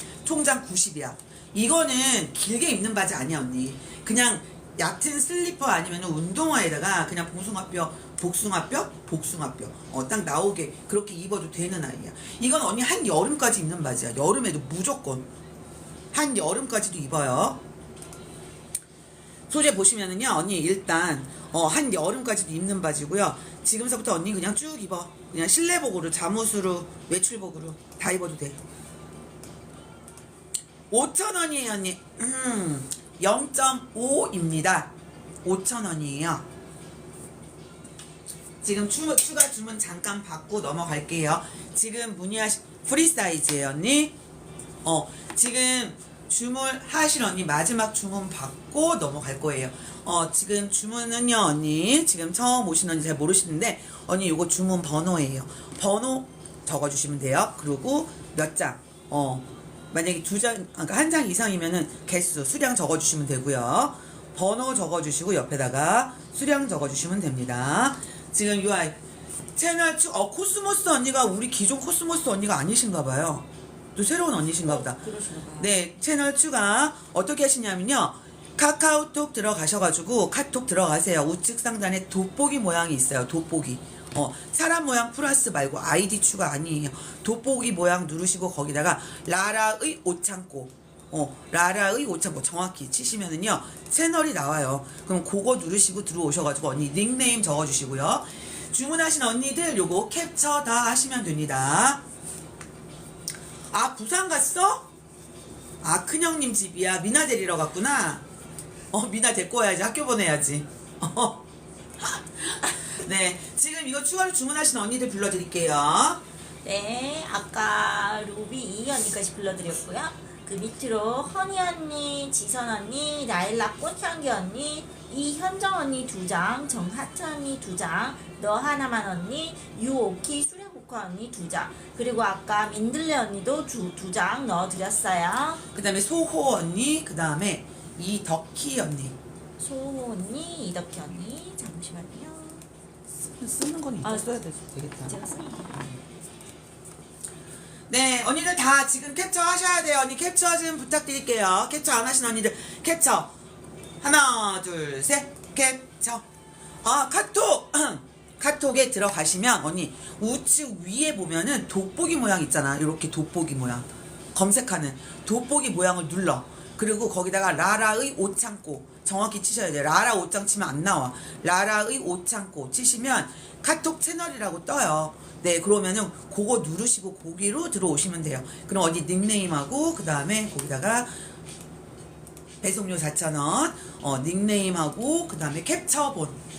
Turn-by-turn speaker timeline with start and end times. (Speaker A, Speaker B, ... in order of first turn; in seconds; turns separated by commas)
Speaker A: 0.2-15.3, Speaker A: 16.1-17.6, Speaker A: 19.5-28.6, Speaker A: 30.9-34.9, Speaker A: 35.4-36.5, Speaker A: 38.6-44.2, Speaker A: 44.8-69.0, Speaker A: 69.5-102.0, Speaker B: 75.0-75.4, Speaker A: 103.7-104.9, Speaker A: 105.8-108.2, Speaker A: 108.9-111.5, Speaker A: 112.0-116.2, Speaker B: 116.6-135.6, Speaker A: 135.7-139.2, Speaker B: 139.6-142.7, Speaker A: 143.2-145.2, Speaker B: 144.0-144.3, Speaker B: 145.1-145.9, Speaker A: 147.9-153.3, Speaker A: 154.0-156.2, Speaker A: 156.8-181.1, Speaker A: 182.6-186.4